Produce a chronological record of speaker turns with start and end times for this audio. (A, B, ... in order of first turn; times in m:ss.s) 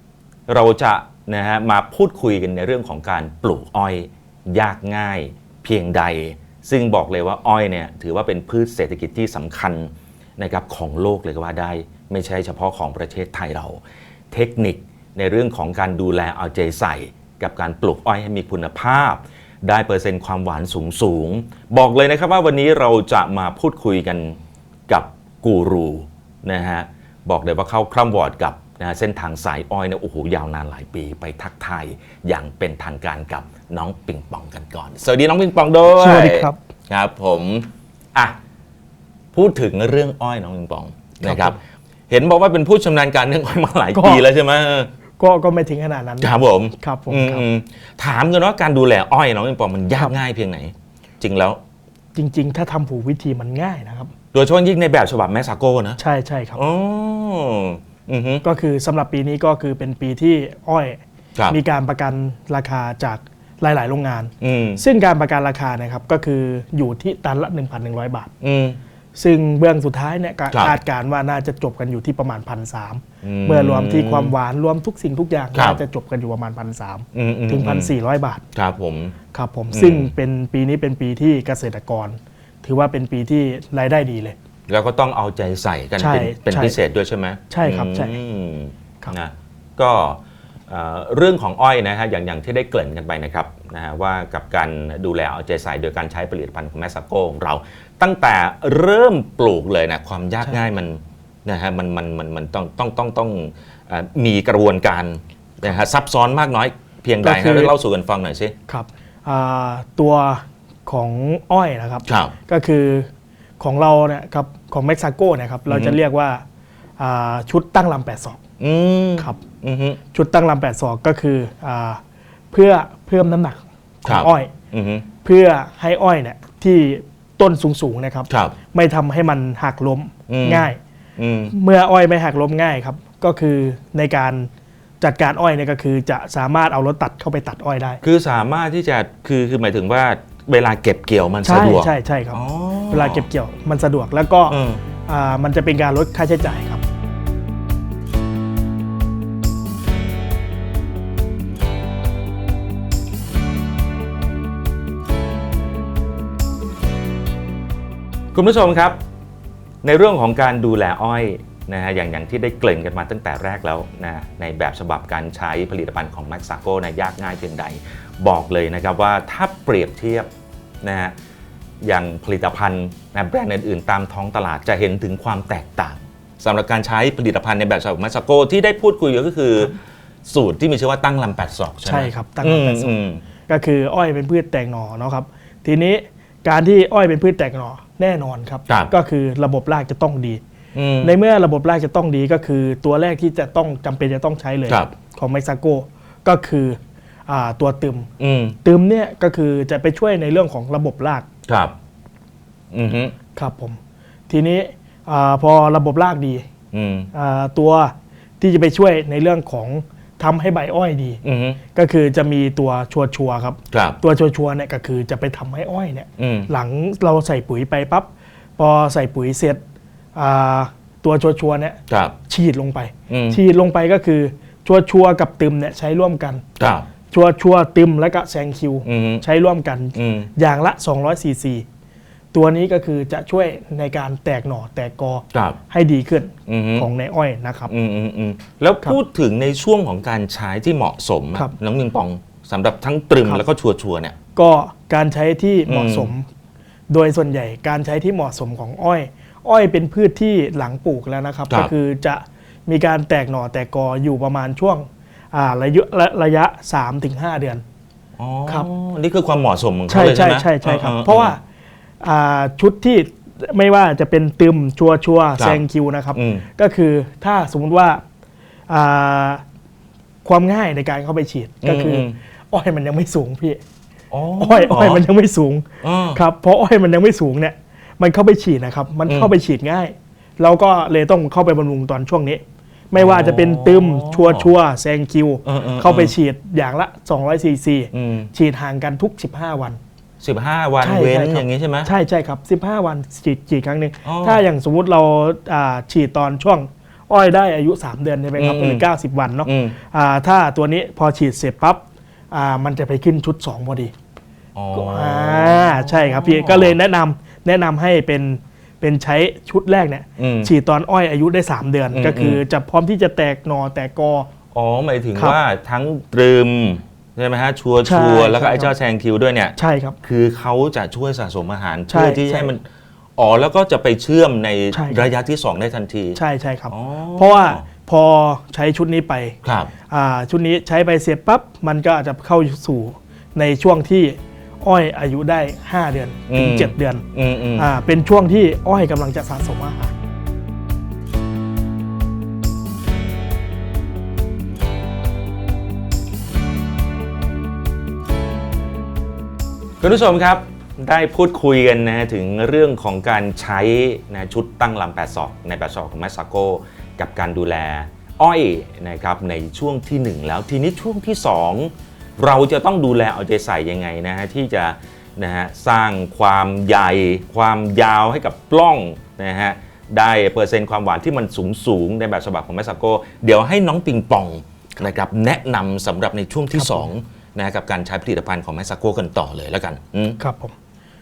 0:00.5-0:13.8 A
0:14.3-0:38.4 A
0:35.8-0:36.6 B
0:39.3-0:44.9 A
0:41.2-0:41.5 B
0:43.9-0:44.2 B
0:45.2-0:47.4 B
0:46.2-0:51.6 A
0:52.1-0:54.1 B
0:54.3-0:56.0 A
0:56.0-0:56.6 B
0:56.6-0:58.4 A
0:58.4-1:01.0 B
1:01.5-1:08.3 B
1:04.4-1:04.8 A
1:08.4-1:08.8 A
1:09.2-1:18.4 B
1:10.5-1:10.8 A
1:13.2-1:14.3 A
1:15.5-1:15.8 A
1:17.1-1:17.9 A
1:18.5-1:19.2 A
1:19.3-1:24.4 B
1:19.7-1:20.1 A
1:24.7-1:48.5 A
1:26.0-1:26.8 B
1:27.5-1:28.1 B
1:47.2-1:47.7 B
1:48.7-1:53.1 B
1:52.0-1:52.3 A
1:53.6-1:56.4 B
1:55.7-1:56.0 A
1:57.0-1:58.4 B
1:58.6-2:00.0 A
2:00.1-2:02.0 B
2:02.5-2:04.5 B
2:04.0-2:05.1 A
2:05.2-2:10.8 B
2:08.3-2:08.6 A
2:10.3-2:11.5 A
2:11.5-2:14.5 B
2:15.0-2:18.0 B
2:18.0-2:23.3 A
2:21.4-2:24.6 B
2:24.5-2:24.8 A
2:25.1-2:26.8 B
2:38.3-2:39.0 A
2:39.8-2:50.3 A
2:50.8-2:51.1 A
2:51.8-3:03.2 A
3:01.8-3:02.9 B
3:03.5-3:10.4 B
3:10.7-3:11.1 A
3:11.0-3:18.1 B
3:14.7-3:14.9 A
3:18.2-3:18.6 A
3:18.6-3:21.2 B
3:21.5-3:21.7 A
3:22.7-3:23.1 A
3:23.3-3:23.8 B
3:24.3-3:26.4 B
3:26.7-3:27.1 A
3:27.1-3:31.2 B
3:31.2-3:31.6 A
3:31.7-3:39.6 B
3:33.7-3:34.0 A
3:36.2-3:36.5 A
3:40.1-3:46.4 B
3:41.9-3:42.2 A
3:43.1-3:43.4 A
3:46.6-3:46.8 A
3:47.1-3:51.6 B
3:48.8-3:49.2 A
3:49.9-3:50.3 A
3:52.3-3:57.7 B
3:55.3-3:55.6 A
3:56.5-3:56.9 A
3:57.7-4:04.1 A
4:04.3-4:06.3 B
4:05.7-4:06.1 A
4:06.9-4:17.6 B
4:18.2-4:21.3 A
4:19.9-4:21.4 B
4:22.0-4:28.0 B
4:26.1-4:26.4 A
4:28.7-4:29.4 B
4:30.2-4:33.6 B
4:31.6-4:32.2 A
4:34.1-4:35.0 A
4:34.4-4:49.8 B
4:35.8-4:36.2 A
4:42.9-4:44.5 A
4:45.4-4:46.1 A
4:47.9-4:48.3 A
4:50.2-4:51.9 A
4:50.8-5:03.9 B
4:54.0-4:54.4 A
4:58.4-4:58.9 A
4:59.4-4:59.8 A
5:04.5-5:06.7 A
5:04.7-5:14.3 B
5:10.2-5:10.5 A
5:11.9-5:12.4 A
5:14.5-5:22.6 A
5:17.8-5:18.7 B
5:19.6-5:20.0 B
5:21.9-5:22.5 B
5:23.2-5:27.6 A
5:24.7-5:25.0 B
5:26.2-5:29.4 B
5:29.4-5:29.7 A
5:29.9-5:37.0 B
5:36.3-5:37.7 A
5:37.6-5:40.0 B
5:49.8-6:20.2 A
6:16.5-6:16.9 B
6:20.2-6:20.5 B